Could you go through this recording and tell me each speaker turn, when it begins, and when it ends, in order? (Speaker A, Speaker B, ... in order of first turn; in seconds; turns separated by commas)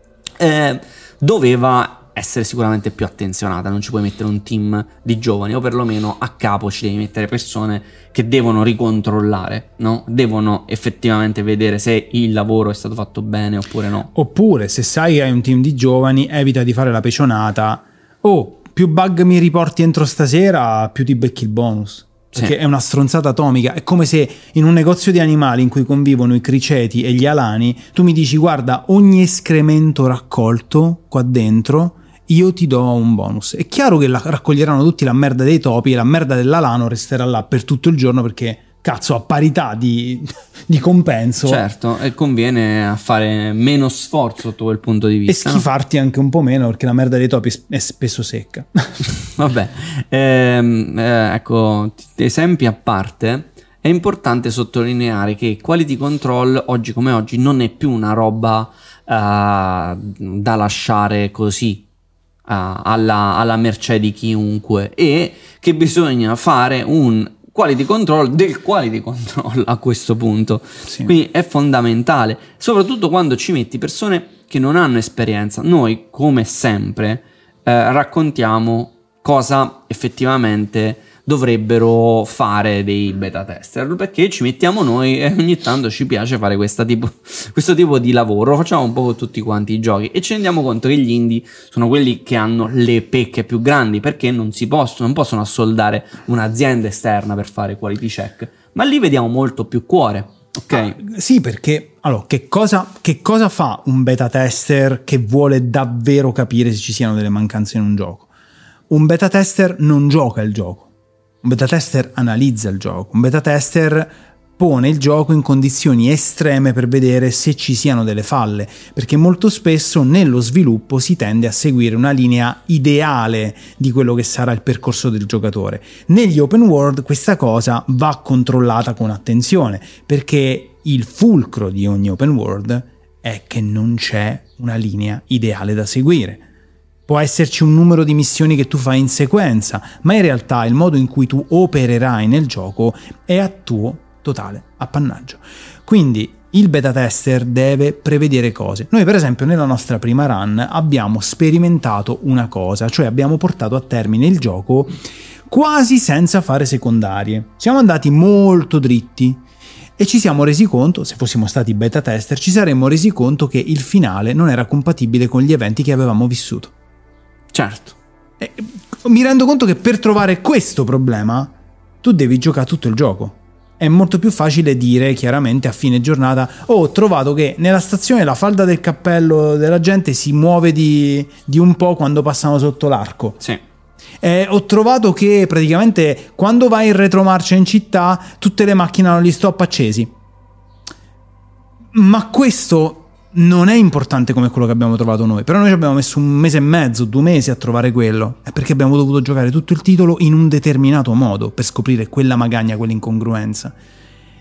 Speaker A: 0.4-14.1, Speaker B: 14.1-41.6, Speaker A: 41.4-45.6, Speaker B: 45.3-49.1, Speaker A: 49.3-61.8, Speaker A: 62.5-101.0, Speaker B: 70.9-71.1, Speaker B: 100.7-108.3, Speaker B: 108.9-110.9, Speaker B: 111.4-136.4, Speaker B: 137.1-159.4, Speaker B: 160.0-166.7, Speaker A: 167.5-168.0, Speaker B: 168.4-183.4, Speaker B: 184.2-190.1, Speaker B: 191.9-203.8